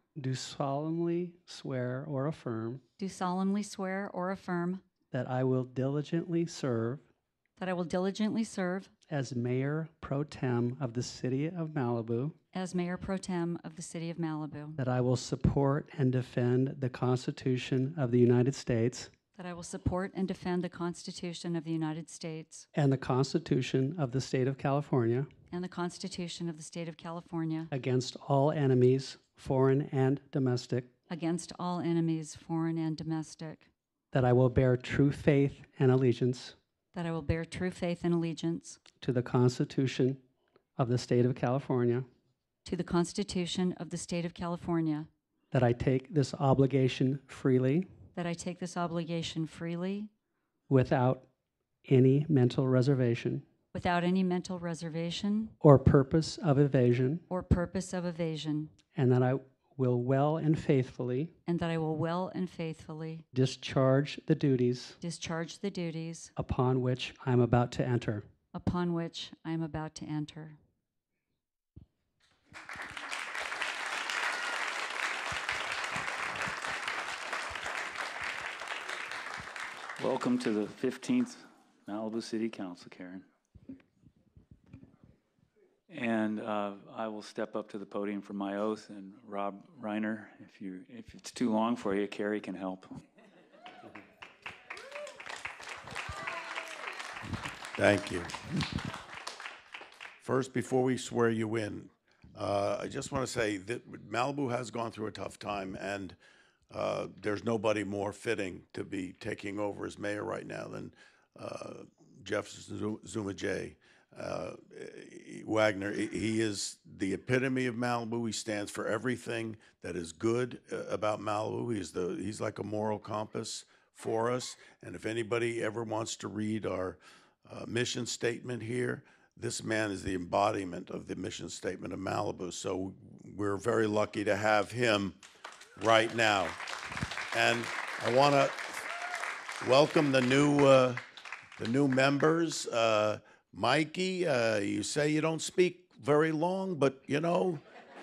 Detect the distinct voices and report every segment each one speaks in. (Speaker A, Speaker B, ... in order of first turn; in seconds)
Speaker A: 0.1-2.8, 5.1-7.0, 9.1-12.3, 14.8-19.1, 22.7-25.3, 27.7-30.9, 34.1-36.5, 39.0-40.2, 40.8-42.0, 45.5-47.9, 50.7-51.2, 51.9-53.4, 55.6-57.2, 58.9-61.3, 63.3-65.0, 66.4-68.2
Speaker B: 3.0-4.8, 7.6-8.9, 12.5-14.8, 19.3-22.7, 25.5-27.7, 31.1-33.7, 36.9-38.8, 42.6-45.1, 48.1-50.1, 53.7-55.5, 57.3-58.7, 61.5-63.2, 65.0-66.3, 68.5-70.6
Speaker C: 80.0-83.2, 85.9-92.9
Speaker D: 97.8-98.3, 100.2-106.2, 106.7-135.2, 135.8-136.6, 137.3-138.8, 139.6-141.0, 141.6-147.6